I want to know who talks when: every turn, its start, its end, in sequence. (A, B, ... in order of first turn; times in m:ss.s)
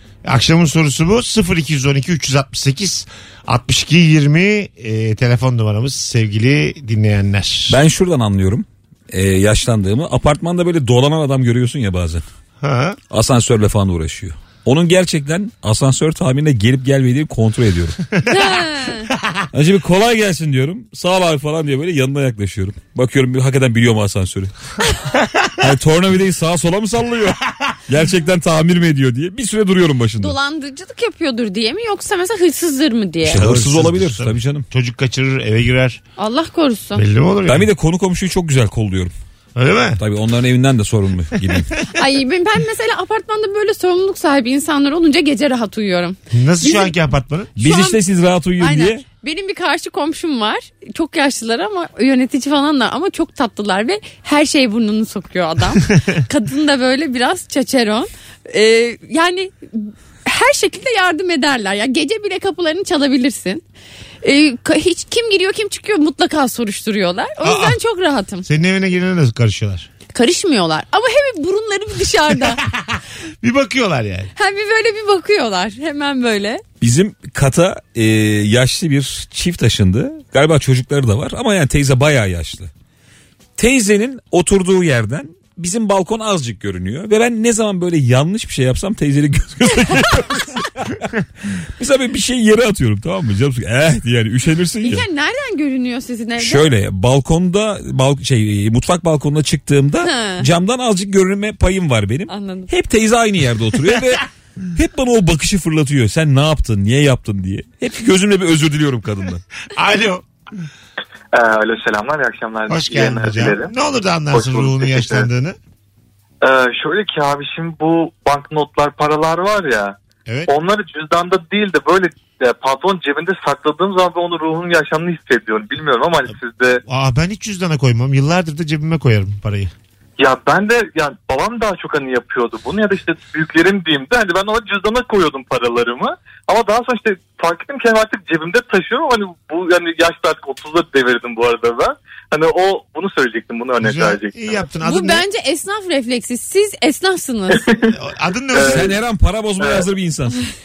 0:00.2-0:07.8 A
0:07.7-0:12.2 B
0:12.6-0:13.0 A
0:13.1-0:18.0 B
0:18.2-0:19.1 C
0:19.5-0:24.5 B
0:25.6-0:30.4 B
0:30.2-0:33.4 C
0:33.2-0:34.7 B
0:33.3-0:36.0 A
0:36.2-0:37.0 C
0:37.0-0:37.7 A
0:37.5-0:39.1 B
0:39.6-0:40.0 A
0:40.0-0:41.8 B
0:42.0-0:46.9 C
0:46.3-0:47.6 A
0:47.6-0:48.0 C
0:47.6-0:49.0 B
0:48.6-1:03.6 C
1:04.2-1:08.4 C
1:07.4-1:07.8 A
1:08.4-1:09.9 A
1:10.1-1:12.6 C
1:12.7-1:14.3 A
1:14.4-1:16.6 C
1:16.8-1:22.7 B
1:23.6-1:31.0 B
1:31.8-1:35.0 B
1:34.8-1:36.7 C
1:36.4-1:49.4 B
1:40.0-1:40.5 C
1:42.3-1:42.7 C
1:49.7-1:50.2 A
1:51.3-1:53.7 D
1:52.7-1:55.6 A
1:54.3-1:55.3 D
1:56.4-2:00.0 D
2:00.3-2:00.5 A
2:00.5-2:06.8 D
2:06.8-2:09.7 A
2:10.2-2:24.6 D
2:23.8-2:25.2 A
2:24.8-2:27.6 C
2:27.5-2:28.0 D
2:27.9-2:28.9 A
2:28.5-2:28.9 D
2:28.6-2:30.4 B
2:29.6-2:29.8 D